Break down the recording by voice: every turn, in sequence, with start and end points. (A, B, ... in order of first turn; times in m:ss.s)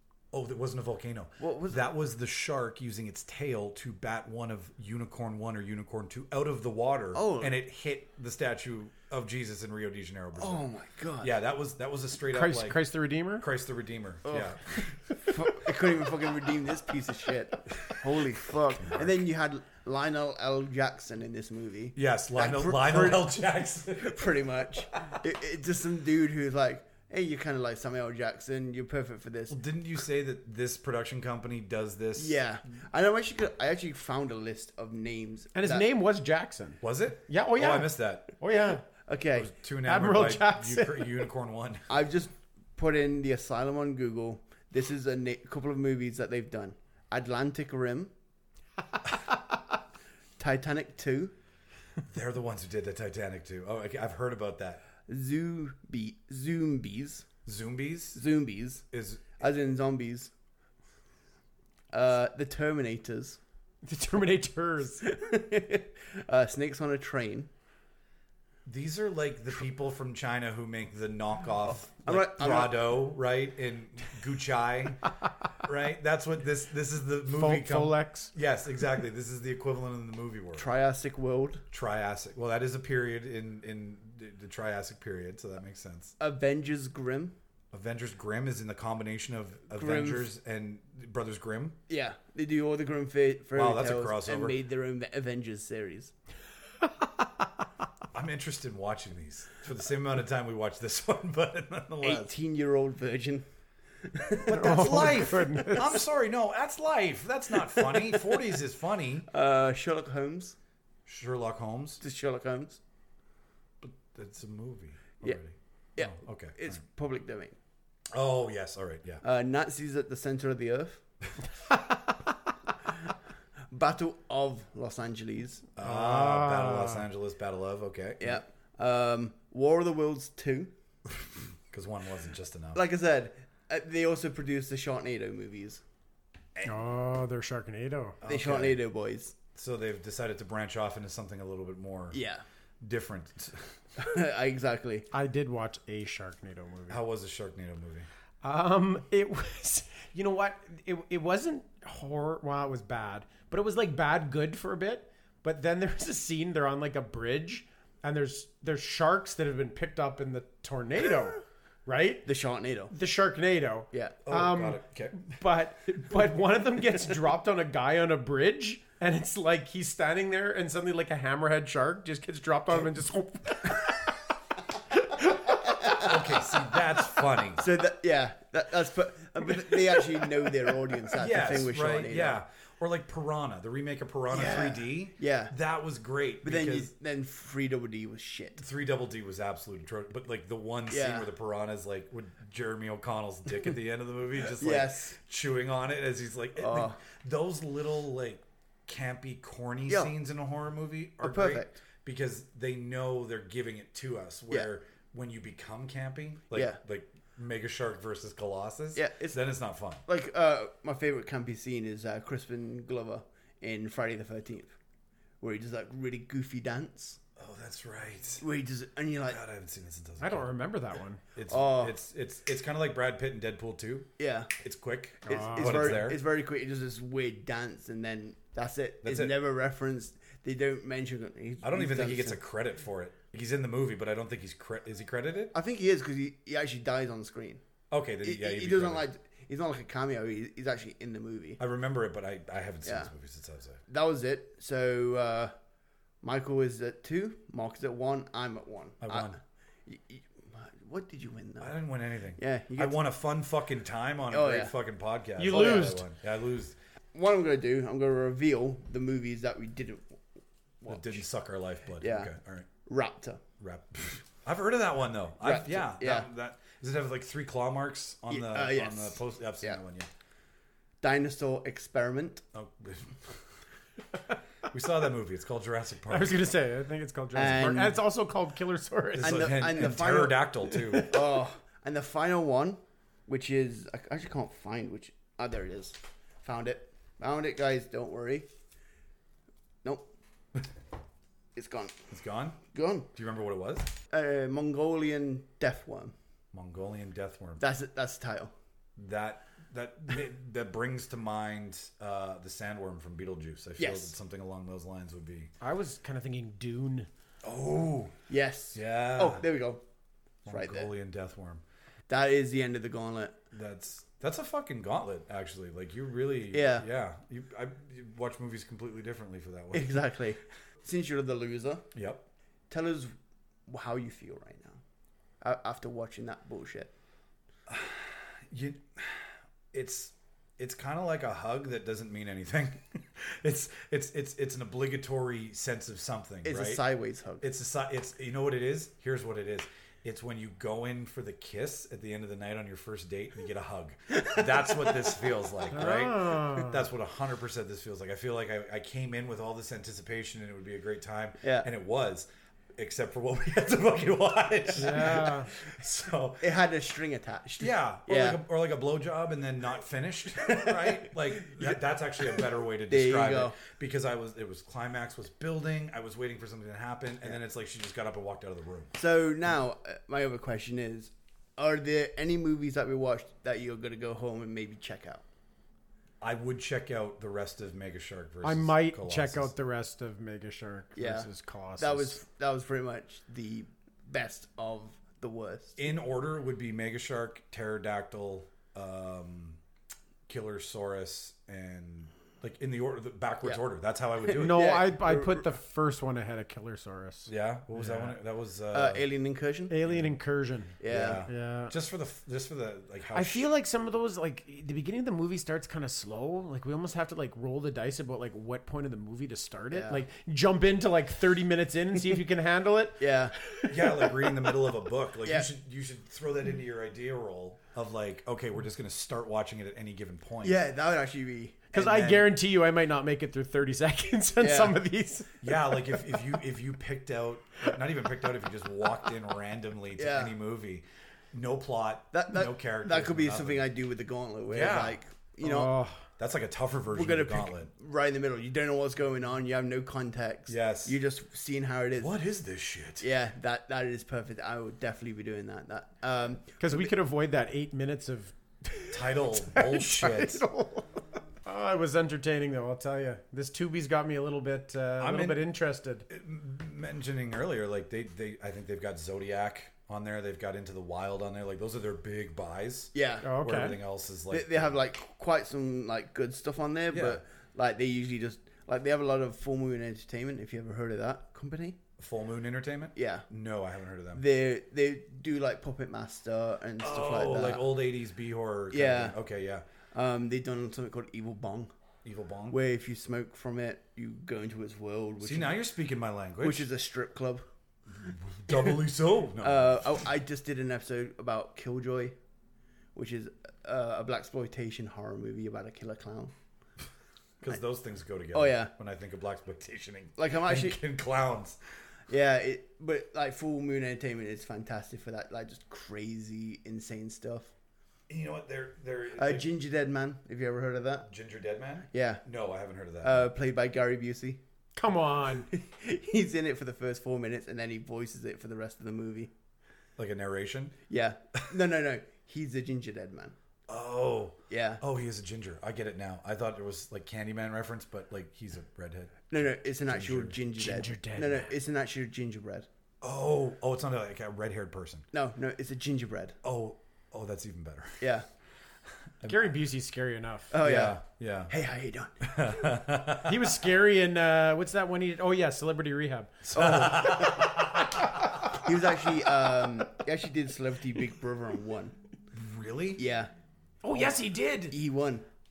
0:00.3-0:10.7 A
0:01.4-0:01.8 B
0:07.1-0:07.6 B
0:10.4-0:11.4 B
0:11.2-0:12.8 A
0:12.3-0:13.5 C
0:13.4-0:14.9 A
0:14.2-0:14.6 B
0:15.1-0:23.4 B
0:18.8-0:19.1 A
0:22.0-0:24.5 A
0:23.9-0:29.6 B
0:29.5-0:32.4 A
0:32.2-0:35.8 B
0:35.6-0:38.9 C
0:36.8-0:38.3 A
0:39.1-0:39.5 B
0:39.4-0:41.9 A
0:39.8-0:41.2 C
0:41.9-0:48.1 B
0:50.4-0:51.3 B
0:52.1-0:54.8 A
0:55.1-0:57.3 B
0:57.5-0:58.2 A
0:58.2-0:58.8 B
0:58.9-0:59.3 A
0:59.4-1:00.3 B
1:01.9-1:03.4 B
1:03.8-1:05.1 C
1:05.0-1:07.5 B
1:08.7-1:15.1 A
1:12.0-1:12.8 B
1:15.6-1:20.7 A
1:17.3-1:18.3 C
1:20.6-1:21.6 B
1:21.7-1:26.1 A
1:26.2-1:27.4 B
1:27.7-1:31.8 A
1:29.7-1:30.3 B
1:31.9-1:36.1 B
1:33.6-1:34.6 A
1:38.1-1:42.3 A
1:42.0-1:43.5 B
1:44.1-1:45.2 B
1:44.5-1:49.3 A
1:44.5-1:46.0 C
1:49.3-1:50.6 B
1:51.1-1:52.0 A
1:52.0-1:52.8 B
1:53.8-1:56.8 A
1:56.0-1:57.6 B
1:58.1-1:59.2 A
1:59.2-2:01.0 B
2:03.7-2:05.7 B
2:05.8-2:08.4 A
2:05.8-2:07.1 C
2:08.2-2:10.7 B
2:11.2-2:12.8 A
2:12.7-2:15.8 B
2:16.6-2:18.2 C
2:18.2-2:18.8 A
2:18.3-2:19.4 B
2:19.6-2:22.2 A
2:22.1-2:22.4 B
2:22.8-2:23.8 A
2:24.0-2:25.1 B
2:25.1-2:27.0 C
2:26.9-2:28.1 A
2:28.4-2:42.3 C
2:42.2-2:42.9 B
2:42.9-2:54.2 C
2:43.9-2:44.2 B
2:44.3-2:45.2 A
2:55.0-2:55.6 C
2:55.8-2:56.1 B
2:55.9-2:57.7 A
2:57.6-3:02.4 B
3:01.2-3:06.9 A
3:04.3-3:05.6 B
3:06.4-3:08.6 B
3:08.6-3:30.0 A
3:10.9-3:11.3 B
3:14.5-3:15.2 B
3:16.6-3:17.0 B
3:19.9-3:20.1 B
3:21.2-3:21.8 B
3:26.5-3:26.8 B
3:29.0-3:29.4 B
3:30.0-3:34.7 B
3:35.4-3:37.2 B
3:37.4-3:38.4 A
3:38.4-3:39.4 B
3:39.3-3:40.5 A
3:40.2-3:41.2 C
3:41.4-3:46.2 A
3:41.5-3:42.0 B
3:44.2-3:44.5 B
3:45.3-3:52.4 B
3:45.3-3:46.1 C
3:49.0-3:49.4 A
3:51.6-3:55.5 A
3:55.5-3:57.6 B
3:57.9-3:59.1 A
3:58.2-4:01.6 B
4:01.6-4:03.8 A
4:02.8-4:03.1 B
4:03.9-4:05.5 B
4:06.2-4:11.8 B
4:09.0-4:09.4 A
4:11.6-4:16.8 A
4:12.4-4:13.0 B
4:14.3-4:14.7 B
4:15.4-4:16.1 C
4:15.5-4:15.9 B
4:17.1-4:20.2 B
4:20.8-4:21.2 B
4:20.9-4:22.7 A
4:22.0-4:22.3 B
4:22.8-4:23.4 B
4:23.6-4:30.1 A
4:25.4-4:26.3 B
4:28.3-4:29.8 B
4:31.0-4:32.4 B
4:32.5-4:33.4 A
4:34.7-4:36.4 A
4:36.1-4:39.5 C
4:37.4-4:38.0 B
4:39.1-4:41.1 A
4:39.2-4:48.5 B
4:49.8-4:50.1 B
4:51.6-4:52.0 B
4:52.1-4:52.6 A
4:52.7-4:53.1 B
4:53.1-4:53.9 A
4:54.1-4:56.2 B
4:56.5-4:57.6 A
4:57.6-4:58.5 B
4:59.0-5:05.5 A
5:03.8-5:04.1 B
5:05.6-5:07.1 C
5:07.4-5:08.2 A
5:08.3-5:09.8 B
5:08.7-5:09.5 A
5:10.4-5:11.6 A
5:10.5-5:10.9 B
5:12.1-5:13.4 B
5:13.5-5:20.0 A
5:16.5-5:16.9 B
5:19.7-5:21.9 B
5:21.9-5:22.3 A
5:22.7-5:23.1 B
5:23.7-5:24.8 B
5:25.4-5:26.9 B
5:27.7-5:36.8 A
5:36.4-5:37.5 B
5:37.4-5:56.4 A
5:45.7-5:46.8 C
5:51.4-5:51.7 B
5:54.8-5:55.5 C
5:56.4-5:58.4 B
5:57.6-6:08.9 A
6:00.4-6:01.8 B
6:02.3-6:03.6 B
6:09.0-6:15.2 B
6:16.2-6:19.5 A
6:18.4-6:22.2 C
6:21.0-6:25.8 B
6:25.8-6:29.6 A
6:30.3-6:34.8 A
6:34.2-6:35.5 B
6:34.4-6:38.2 C
6:37.3-6:39.0 A
6:38.7-6:39.8 B
6:39.7-6:41.8 C
6:39.8-6:40.1 A
6:40.8-6:41.2 B
6:40.8-6:43.5 A
6:43.1-6:54.3 C
6:49.7-6:50.0 B
6:53.0-6:53.4 B
6:53.7-7:00.6 A
7:00.4-7:02.2 B
7:01.7-7:05.4 C
7:04.4-7:04.8 B
7:05.4-7:13.6 A
7:10.0-7:10.3 B
7:12.1-7:15.7 B
7:14.5-7:15.0 A
7:15.4-7:16.0 C
7:16.2-7:17.7 A
7:16.9-7:22.1 B
7:20.5-7:21.0 A
7:22.0-7:23.1 A
7:23.0-7:26.9 B
7:26.6-7:30.9 C
7:28.9-7:30.4 A
7:31.4-7:36.1 C
7:35.0-7:35.4 A
7:36.1-7:44.8 A
7:42.9-7:43.3 B
7:43.2-7:43.8 C
7:44.3-7:51.8 B
7:46.9-7:47.2 A
7:52.0-7:54.2 A
7:53.0-7:53.3 B
7:54.1-7:57.7 B
7:56.8-7:59.6 A
7:58.7-7:59.2 B
7:59.9-8:01.7 B
8:02.0-8:02.6 A
8:02.5-8:05.6 B
8:05.2-8:06.7 A
8:06.4-8:07.5 B
8:07.9-8:09.8 A
8:09.4-8:12.2 B
8:13.0-8:16.3 B
8:17.4-8:21.6 A
8:18.3-8:18.7 B
8:20.2-8:20.8 B
8:22.1-8:27.5 B
8:28.1-8:29.5 A
8:29.2-8:31.1 B
8:31.1-8:33.3 A
8:31.9-8:32.2 B
8:33.0-8:34.4 B
8:34.8-8:35.5 C
8:35.5-8:39.3 B
8:40.0-8:40.8 A
8:40.9-8:43.4 B
8:43.7-8:50.4 A
8:44.5-8:44.8 B
8:49.3-8:52.7 B
8:50.6-8:51.5 C
8:53.0-8:55.1 A
8:55.1-8:56.4 B
8:56.4-8:58.0 A
8:58.0-8:58.3 B
8:59.2-8:59.6 A
8:59.3-9:00.5 C
9:00.5-9:02.7 B
9:00.6-9:01.5 A
9:02.2-9:03.5 A
9:03.2-9:07.3 C
9:06.4-9:08.0 A
9:06.6-9:07.6 B
9:08.6-9:12.0 B
9:12.3-9:13.0 A
9:13.0-9:13.3 B
9:13.8-9:14.8 C
9:13.9-9:15.3 B